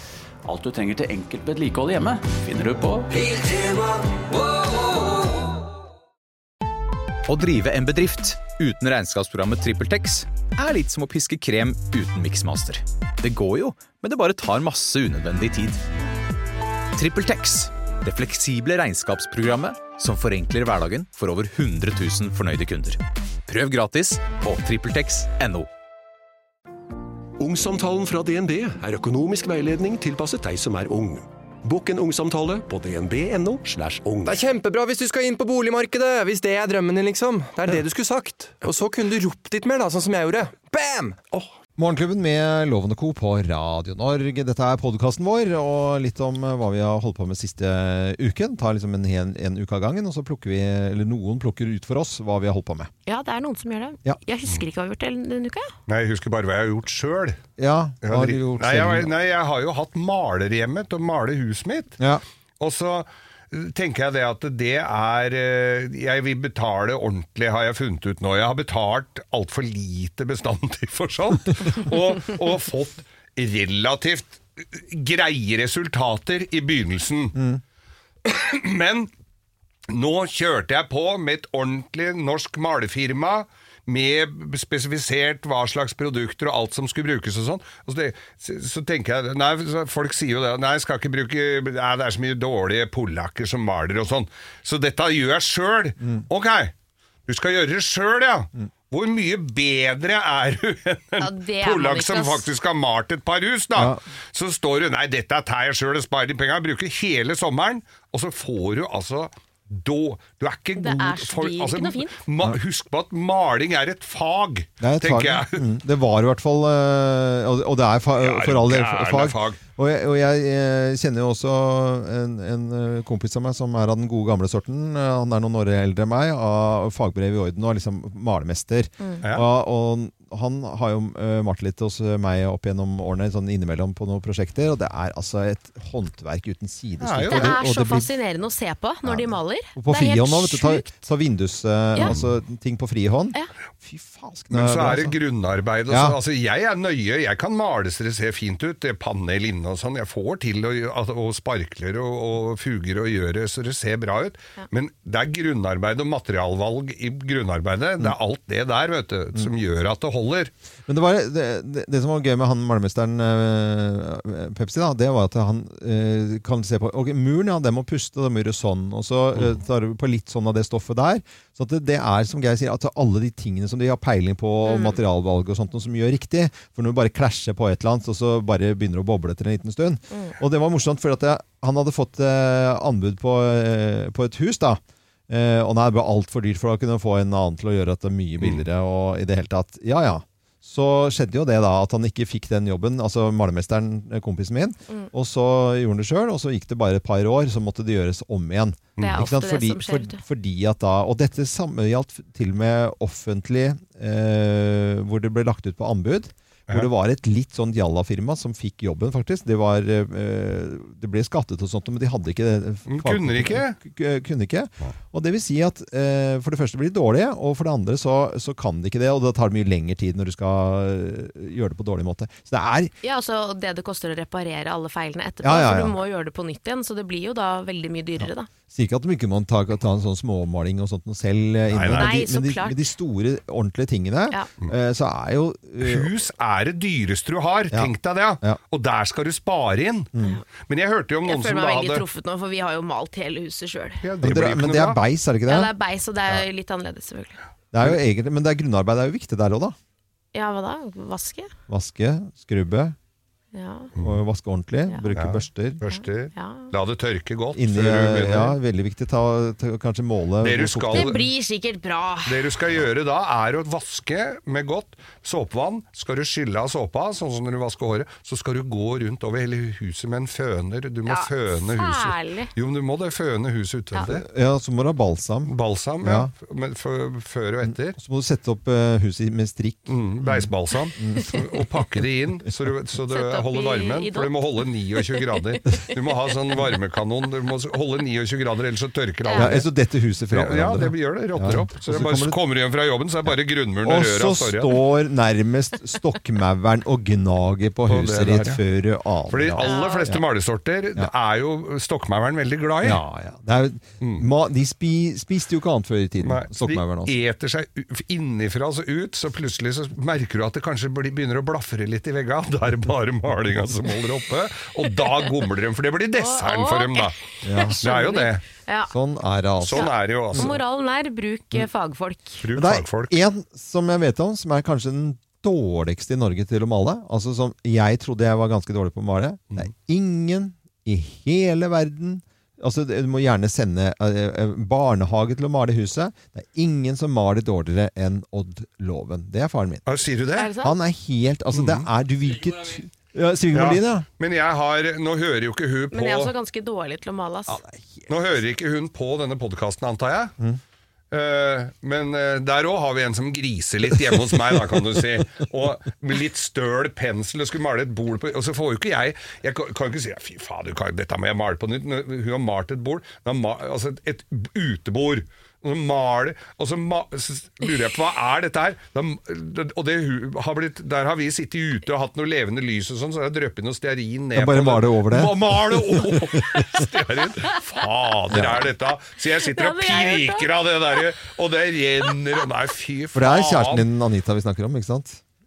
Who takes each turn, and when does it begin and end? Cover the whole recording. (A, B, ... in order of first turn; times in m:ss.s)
0:00.4-0:04.0 A
0:07.3-0:15.8 B
0:16.9-0:25.7 B
0:27.4-0:34.4 C
0:34.3-0:41.4 D
0:41.8-0:52.9 E
0:53.0-0:55.7 F
0:55.9-0:57.4 G
0:57.6-0:59.1 E
0:58.0-1:02.0 G
1:02.6-1:17.4 G
1:17.3-1:17.6 E
1:18.2-1:19.1 G
1:19.9-1:36.7 G
1:37.3-1:55.6 G
1:41.2-1:42.4 F
1:43.8-1:44.0 E
1:50.8-1:52.2 F
1:54.8-2:18.1 E
1:58.2-1:59.6 G
2:17.0-2:17.6 G
2:17.3-2:20.9 F
2:19.0-2:25.2 E
2:22.0-2:22.3 G
2:24.5-2:40.5 G
2:25.9-2:26.2 E
2:40.9-3:42.9 E
2:54.6-2:55.0 F
3:19.0-3:19.2 G
3:19.0-3:20.2 F
3:32.9-3:33.8 G
3:43.0-3:48.5 F
3:45.4-3:46.0 E
3:48.2-3:56.1 E
3:51.7-3:52.1 G
3:51.9-3:52.9 F
3:55.8-4:00.1 G
3:57.7-3:58.6 E
4:00.1-4:00.4 E
4:00.7-4:02.0 G
4:01.2-4:04.0 F
4:04.0-4:05.0 G
4:04.2-4:05.7 E
4:05.4-4:07.4 F
4:07.7-4:09.8 E
4:10.3-4:11.5 F
4:11.7-4:13.0 E
4:13.5-4:13.9 F
4:14.0-4:15.8 E
4:15.1-4:18.6 G
4:15.9-4:16.7 F
4:17.5-4:21.3 E
4:20.4-4:21.2 G
4:20.9-4:22.5 F
4:22.2-4:34.2 G
4:31.0-4:32.5 F
4:34.0-4:36.3 E
4:35.4-4:38.0 G
4:37.6-4:41.6 E
4:39.9-4:49.6 G
4:43.1-4:44.3 F
4:49.2-4:49.6 F
4:49.3-4:52.4 E
4:50.3-4:54.8 G
4:53.8-5:00.2 E
4:57.9-4:58.6 G
4:59.3-5:03.0 G
4:59.6-5:00.1 F
5:02.8-5:07.2 E
5:04.0-5:04.3 G
5:06.2-5:17.2 G
5:16.1-5:18.9 F
5:17.4-5:17.8 E
5:17.8-5:18.4 G
5:18.9-5:20.5 E
5:19.6-5:22.4 F
5:19.6-5:20.6 G
5:22.4-5:23.2 G
5:22.5-5:39.9 E
5:39.9-5:40.5 G
5:40.3-5:40.8 F
5:40.6-5:44.0 E
5:41.5-5:41.9 G
5:43.5-5:46.3 G
5:45.9-5:47.6 F
5:47.5-5:48.1 E
5:48.1-5:50.3 G
5:51.1-6:23.8 G
6:14.3-6:16.4 E
6:18.3-6:18.7 E
6:19.4-6:20.5 F
6:23.1-6:25.2 E